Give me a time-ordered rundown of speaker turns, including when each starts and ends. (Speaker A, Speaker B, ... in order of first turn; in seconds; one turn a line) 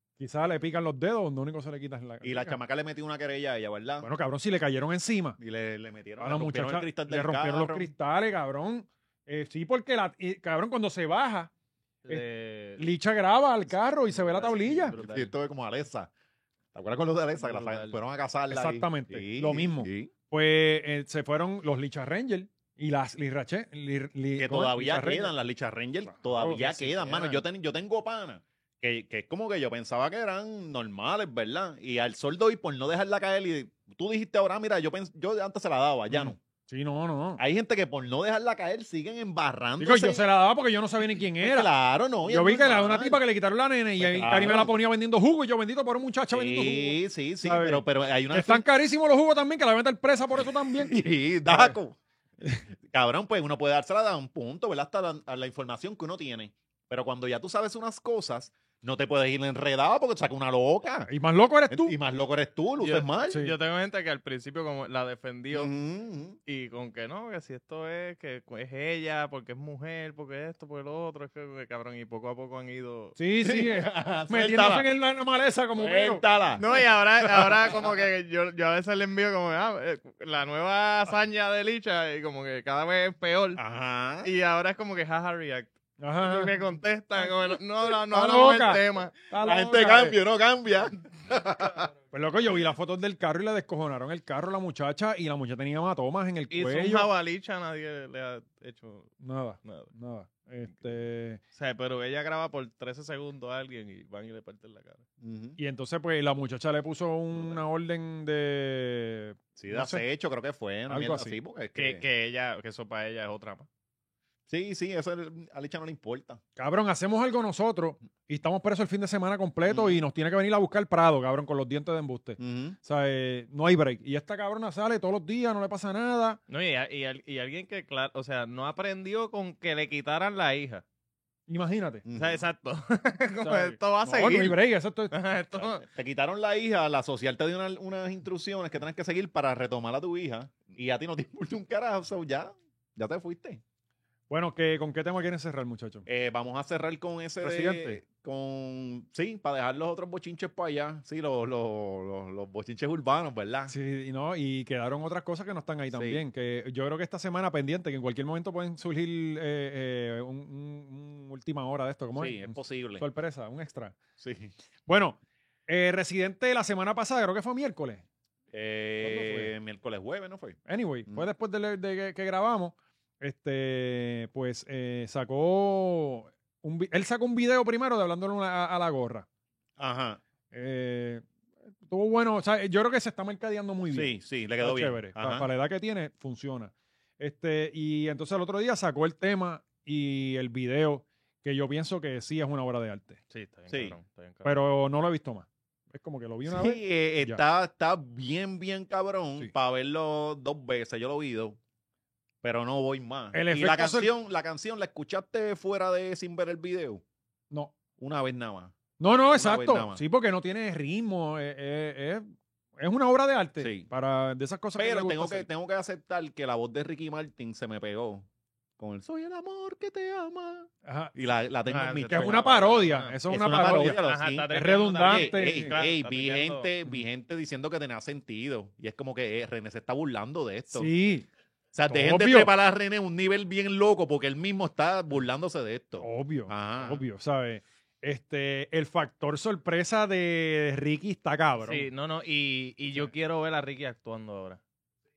Speaker A: 0.2-2.6
Speaker B: 2.2-4.1
Speaker A: 4.0-5.4
Speaker B: 5.4-7.9
Speaker A: 6.2-11.5
Speaker C: 12.1-12.9
Speaker A: 12.8-14.9
Speaker C: 14.1-15.3
Speaker B: 14.9-16.1
Speaker B: 16.7-20.1
Speaker C: 17.4-18.0
Speaker A: 18.5-25.3
Speaker B: 24.4-36.4
Speaker A: 26.2-27.4
Speaker A: 36.1-37.4
Speaker B: 37.4-40.2
Speaker A: 39.8-41.7
Speaker B: 41.4-43.2
Speaker A: 42.3-51.8
Speaker B: 44.0-44.7
Speaker B: 46.3-48.7
Speaker B: 50.4-52.0
Speaker B: 52.9-61.1
Speaker A: 61.1-62.0
Speaker B: 61.7-63.4
Speaker C: 62.8-65.7
Speaker B: 65.5-66.4
Speaker C: 66.5-73.2
Speaker A: 73.2-76.2
Speaker B: 73.4-74.9
Speaker B: 75.8-76.8
Speaker C: 76.6-83.6
Speaker B: 83.5-84.3
Speaker C: 84.2-89.2
Speaker A: 86.0-86.5
Speaker A: 88.1-90.2
Speaker B: 89.4-91.9
Speaker A: 92.1-97.1
Speaker C: 96.5-99.9
Speaker A: 99.2-101.4
Speaker C: 101.5-105.0
Speaker B: 105.2-105.6
Speaker A: 105.6-110.0
Speaker B: 109.5-112.0
Speaker A: 110.9-111.4
Speaker C: 111.8-113.7
Speaker B: 114.5-116.4
Speaker A: 116.6-126.4
Speaker B: 119.7-120.0
Speaker B: 122.4-122.8
Speaker C: 126.5-130.8
Speaker A: 131.5-132.0
Speaker B: 132.1-132.4
Speaker C: 132.1-135.8
Speaker A: 133.4-135.1
Speaker B: 135.5-143.6
Speaker A: 144.3-146.1
Speaker B: 146.1-153.7
Speaker A: 147.4-148.0
Speaker A: 153.7-163.9
Speaker B: 155.9-156.2
Speaker B: 162.2-163.1
Speaker B: 164.2-164.5
Speaker A: 164.9-168.0
Speaker B: 168.5-171.3
Speaker A: 169.0-169.5
Speaker A: 170.7-179.3
Speaker B: 179.8-180.2
Speaker A: 180.5-181.2
Speaker A: 181.8-193.2
Speaker B: 183.9-185.5
Speaker C: 193.3-194.5
Speaker B: 193.7-193.9
Speaker A: 194.4-197.4
Speaker B: 196.5-201.6
Speaker B: 202.4-207.0
Speaker A: 203.3-204.1
Speaker B: 208.0-208.8
Speaker A: 209.0-215.5
Speaker B: 209.3-210.0
Speaker B: 213.6-213.9
Speaker B: 214.8-218.3
Speaker B: 218.8-224.5
Speaker A: 220.8-221.1
Speaker C: 221.7-226.7
Speaker A: 222.1-224.0
Speaker A: 224.5-225.7
Speaker B: 225.0-230.9
Speaker A: 230.7-231.3
Speaker B: 231.7-237.0
Speaker A: 231.9-232.5
Speaker A: 236.0-241.9
Speaker C: 241.6-244.6